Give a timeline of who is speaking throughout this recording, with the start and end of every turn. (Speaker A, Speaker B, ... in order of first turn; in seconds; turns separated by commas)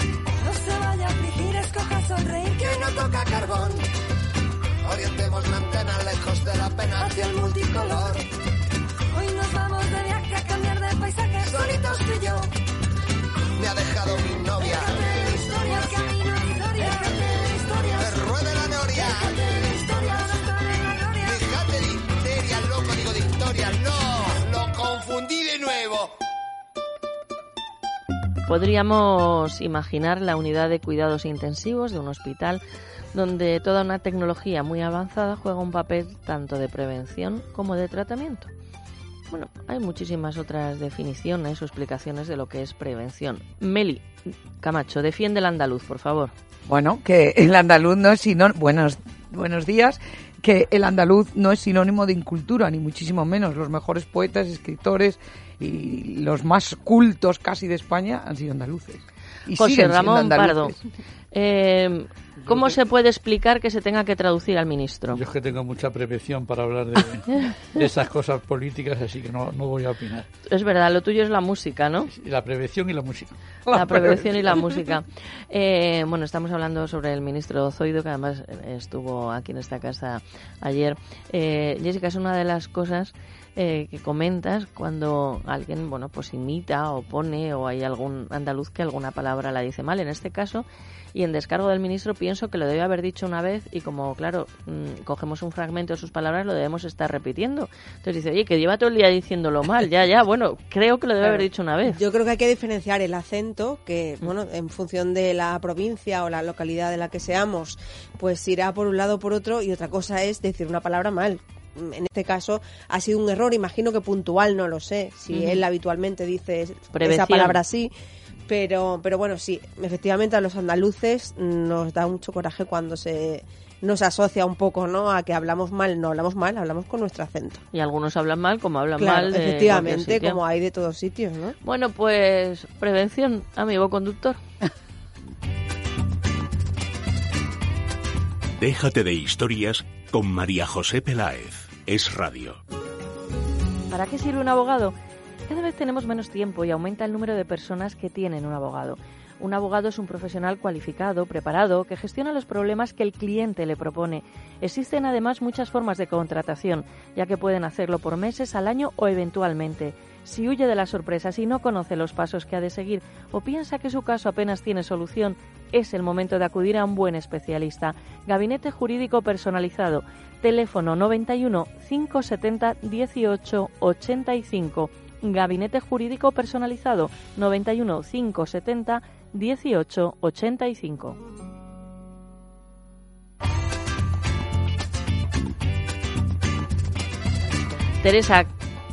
Speaker A: 0.4-3.9, Speaker B: 2.6-3.4, Speaker B: 4.8-8.2, Speaker A: 7.0-8.2, Speaker A: 9.1-12.5, Speaker B: 11.4-12.3, Speaker B: 13.6-16.1, Speaker A: 14.6-18.3, Speaker B: 16.8-17.1, Speaker B: 17.9-20.0, Speaker A: 18.9-21.4, Speaker B: 21.2-26.1, Speaker C: 28.5-32.6, Speaker C: 33.1-38.5, Speaker C: 39.3-46.3, Speaker D: 46.7-60.8, Speaker C: 59.6-60.8, Speaker C: 61.3-65.2, Speaker E: 65.1-70.3, Speaker C: 70.5-72.1, Speaker E: 72.1-74.5, Speaker D: 73.7-74.2, Speaker C: 73.7-102.0, Speaker F: 101.2-117.9, Speaker C: 115.3-115.6, Speaker C: 116.9-117.6, Speaker F: 118.5-127.6, Speaker C: 127.7-130.4, Speaker F: 129.0-131.6, Speaker C: 131.6-134.4, Speaker G: 138.6-142.6, Speaker C: 143.9-144.9, Speaker C: 145.5-181.2, Speaker C: 188.0-188.6